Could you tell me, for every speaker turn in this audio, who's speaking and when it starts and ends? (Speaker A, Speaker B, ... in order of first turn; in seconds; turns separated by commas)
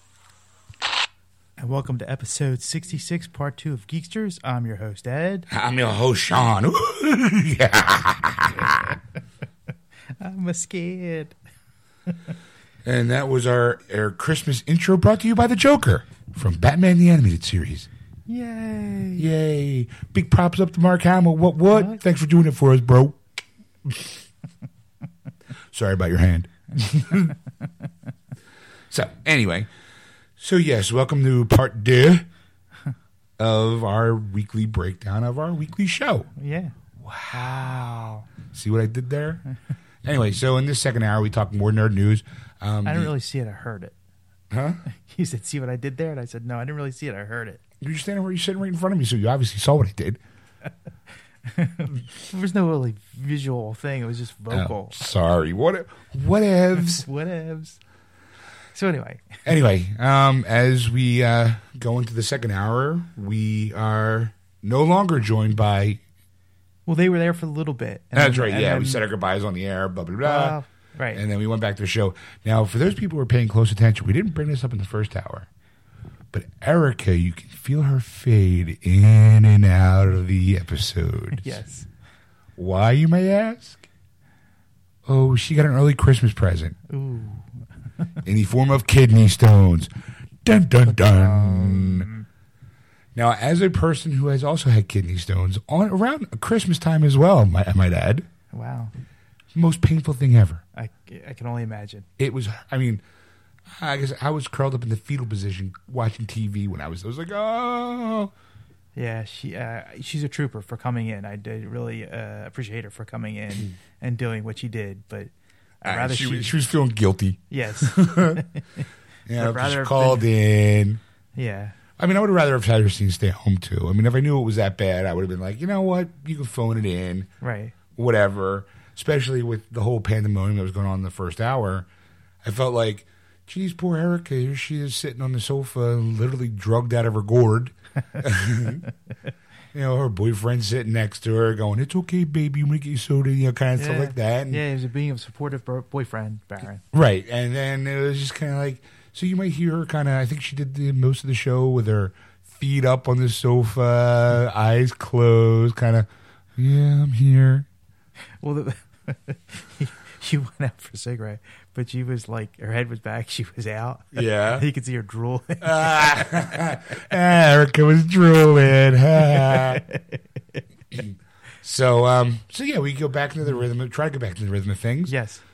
Speaker A: 1.6-5.5, Speaker B: 5.5-9.0, Speaker A: 10.2-11.3, Speaker B: 12.8-17.9, Speaker A: 18.3-19.3, Speaker B: 19.2-23.3, Speaker A: 21.7-22.0, Speaker B: 23.8-24.2, Speaker B: 25.7-27.3, Speaker B: 28.9-29.7, Speaker B: 30.4-32.3, Speaker B: 33.4-36.3, Speaker A: 36.4-36.7, Speaker B: 37.0-37.8, Speaker A: 37.3-38.2, Speaker B: 38.4-39.4, Speaker B: 40.0-43.1, Speaker A: 42.8-43.9, Speaker B: 44.5-44.8, Speaker A: 44.9-47.6, Speaker B: 47.8-50.2, Speaker A: 51.5-54.9, Speaker B: 54.5-57.1, Speaker A: 56.9-57.8, Speaker A: 58.7-59.2, Speaker B: 59.4-66.0, Speaker A: 66.9-69.0, Speaker B: 68.1-75.5, Speaker A: 70.2-71.2, Speaker B: 76.3-81.5, Speaker A: 81.4-81.9, Speaker B: 82.6-83.8, Speaker B: 85.0-86.8, Speaker A: 86.9-87.5, Speaker B: 88.2-89.9, Speaker B: 90.4-92.1, Speaker A: 90.9-92.2, Speaker B: 93.1-98.3, Speaker A: 98.5-98.9, Speaker B: 99.5-100.6, Speaker A: 100.8-102.0, Speaker B: 102.2-103.0, Speaker B: 103.7-108.3, Speaker A: 108.9-116.5, Speaker B: 115.8-118.4, Speaker A: 117.5-118.6, Speaker B: 119.3-121.0, Speaker A: 119.3-120.3, Speaker A: 121.3-121.7, Speaker B: 122.0-127.3, Speaker A: 127.4-127.7, Speaker B: 127.9-131.9, Speaker B: 132.4-138.9, Speaker B: 139.7-144.6, Speaker A: 143.8-146.8, Speaker B: 146.9-157.7, Speaker A: 158.4-166.3, Speaker B: 164.1-164.7, Speaker B: 165.6-169.8, Speaker A: 169.4-170.0, Speaker B: 170.9-175.2, Speaker A: 175.1-175.4